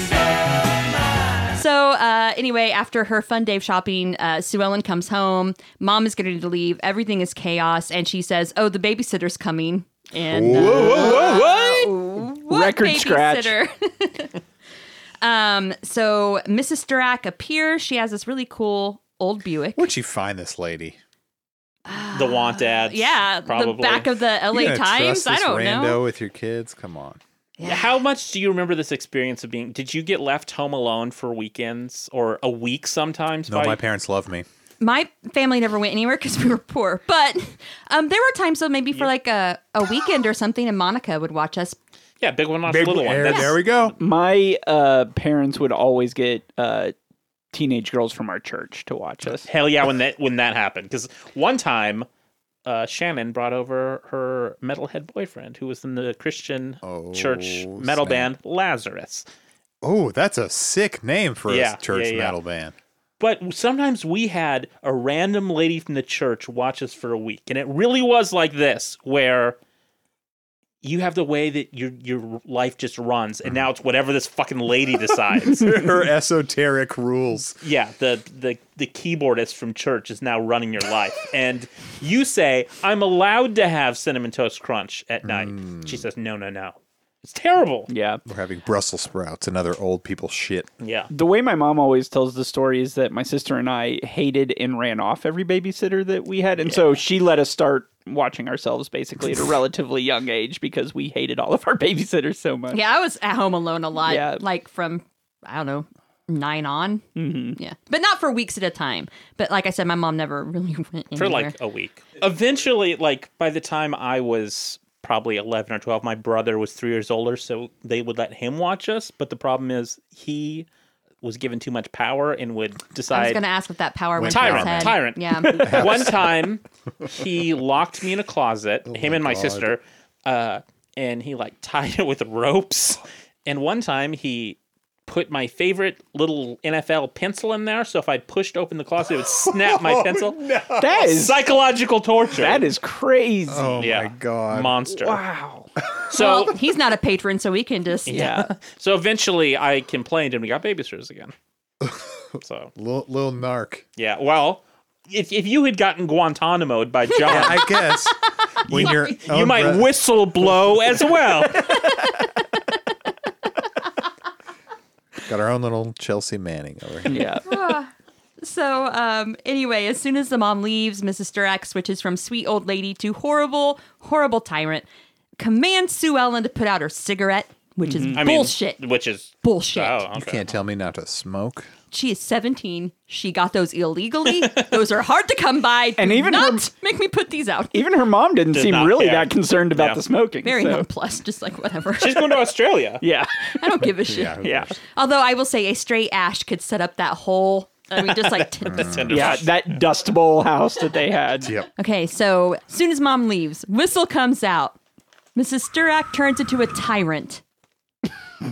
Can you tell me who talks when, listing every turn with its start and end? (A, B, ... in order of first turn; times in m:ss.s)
0:01.5-0:14.4 A
0:10.3-0:11.1 B
0:10.5-0:13.5 C
0:15.2-0:19.9 A
0:19.8-0:21.0 B
0:21.8-0:26.0 A
0:22.1-0:24.1 D
0:24.5-0:27.2 B
0:27.6-0:27.9 A
0:27.6-0:33.8 D
0:33.5-0:34.4 B
0:34.8-0:41.8 A
0:42.2-0:43.6 D
0:42.6-0:44.0 B
0:44.0-0:46.9 C
0:47.5-0:49.5 C
0:49.4-0:52.0 D
0:52.6-0:59.2 D
0:56.8-0:58.3 B
0:59.8-1:02.7 B
1:01.5-1:02.4 D
1:03.2-1:09.6 D
1:10.8-1:16.0 D
1:15.3-1:17.5 B
1:17.6-1:27.9 D
1:25.2-1:26.0 B
1:27.9-1:28.2 C
1:28.2-1:30.7 B
1:30.8-1:31.1 D
1:31.1-1:42.8 C
1:36.6-1:36.9 D
1:42.7-1:47.0 A
1:44.0-1:44.4 C
1:47.2-1:47.6 C
1:47.6-1:51.5 A
1:51.2-2:00.6 D
2:01.2-2:03.4 D
2:03.1-2:05.8 A
2:04.2-2:06.2 B
2:04.3-2:22.7 D
2:05.4-2:05.8 C
2:08.9-2:09.7 B
2:19.4-2:21.0 B
2:20.8-2:21.4 C
2:22.3-2:23.8 C
2:23.5-2:24.9 B
2:23.8-2:25.2 D
2:25.0-2:25.7 C
2:26.1-2:26.5 D
2:26.1-2:28.4 A
2:28.0-2:31.3 D
2:28.1-2:28.5 C
2:31.8-2:32.1 B
2:32.4-2:32.7 D
2:32.8-2:33.8 B
2:34.0-2:37.9 D
2:37.2-2:39.9 B
2:38.6-2:41.8 D
2:45.2-2:47.2 B
2:47.1-2:47.4 C
2:47.4-2:54.8 A
2:55.4-2:58.8 A
2:57.8-2:58.2 C
2:58.2-3:00.5 D
2:59.4-3:00.0 A
3:00.1-3:01.7 B
3:01.9-3:07.8 A
3:06.0-3:06.6 C
3:07.7-3:10.8 C
3:08.5-3:10.0 D
3:10.4-3:12.5 A
3:12.0-3:13.0 D
3:13.0-3:13.5 C
3:13.5-3:19.0 A
3:14.0-3:14.7 B
3:14.4-3:14.7 C
3:18.6-3:19.2 B
3:18.7-3:19.7 D
3:19.1-3:21.5 C
3:21.4-3:21.7 B
3:21.8-3:24.8 A
3:25.3-3:27.4 A